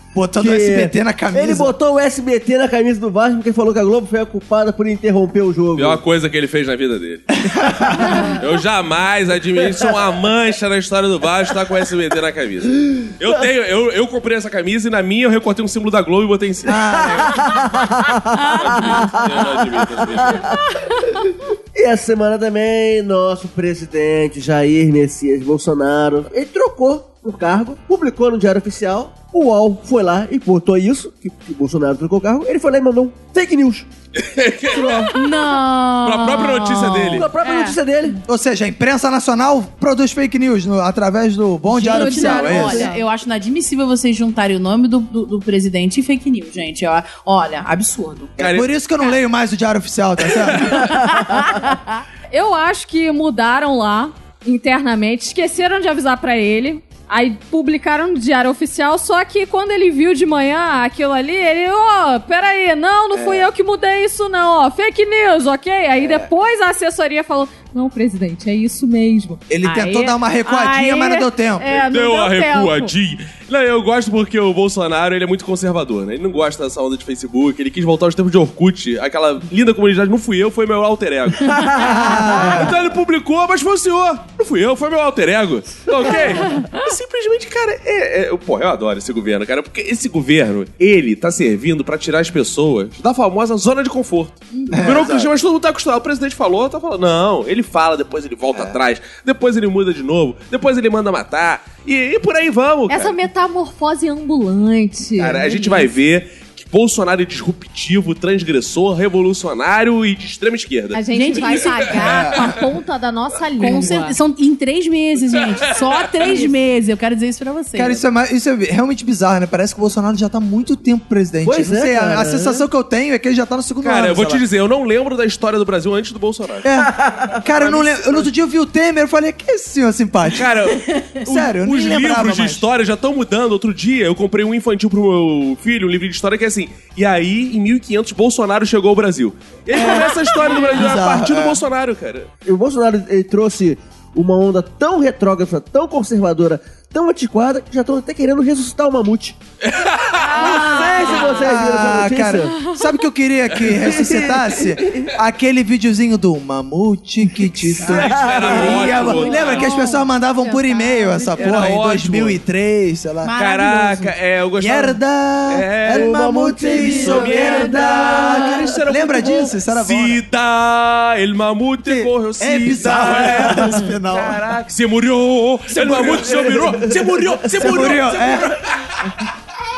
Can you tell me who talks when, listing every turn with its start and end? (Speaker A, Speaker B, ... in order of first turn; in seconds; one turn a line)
Speaker A: 0.1-1.7
Speaker B: 0.3-6.0
Speaker C: 5.8-17.1
Speaker A: 7.4-8.2
Speaker B: 9.6-9.9
Speaker A: 16.6-17.5
Speaker B: 16.7-33.9
Speaker C: 18.5-20.6
Speaker C: 34.1-35.0
Speaker B: 34.7-35.1
Speaker D: 34.7-37.8
Speaker E: 35.1-35.7
Speaker C: 36.0-37.3
Speaker B: 37.1-38.2
Speaker A: 38.2-42.9
Speaker D: 41.7-43.0
Speaker E: 41.7-48.3
Speaker C: 48.4-48.7
Speaker A: 48.4-50.9
Speaker C: 50.3-50.8
Speaker D: 51.1-72.9
Speaker A: 63.1-63.5
Speaker A: 66.0-66.3
Speaker A: 69.5-71.7
Speaker C: 71.7-103.2
Speaker A: 81.8-82.7
Speaker D: 82.0-82.6
Speaker D: 94.5-94.9
Speaker A: 94.7-95.3
Speaker A: 98.5-98.8
Speaker D: 102.9-105.8
Speaker C: 105.2-112.2
Speaker D: 110.9-114.2
Speaker E: 111.1-111.9
Speaker A: 112.0-112.6
Speaker E: 113.6-118.0
Speaker C: 115.5-116.3
Speaker A: 117.8-124.4
Speaker B: 121.4-122.6
Speaker C: 123.8-126.7
Speaker A: 126.6-130.5
Speaker B: 126.8-127.4
Speaker C: 127.6-128.2
Speaker C: 130.3-142.3
Speaker A: 131.2-132.7
Speaker A: 139.7-140.1
Speaker A: 140.7-141.6
Speaker B: 142.4-149.4
Speaker C: 149.6-151.2
Speaker D: 150.2-151.4
Speaker B: 150.3-152.6
Speaker A: 151.2-163.3
Speaker C: 153.5-153.9
Speaker B: 153.8-155.1
Speaker B: 157.7-159.3
Speaker C: 157.8-159.7
Speaker D: 158.8-161.7
Speaker C: 161.4-162.4
Speaker D: 163.2-164.1
Speaker C: 163.4-166.2
Speaker A: 164.6-170.2
Speaker B: 165.9-168.8
Speaker C: 166.7-179.2
Speaker D: 167.0-167.4
Speaker A: 171.8-174.4
Speaker A: 175.7-176.9
Speaker B: 176.2-177.0
Speaker A: 177.5-178.6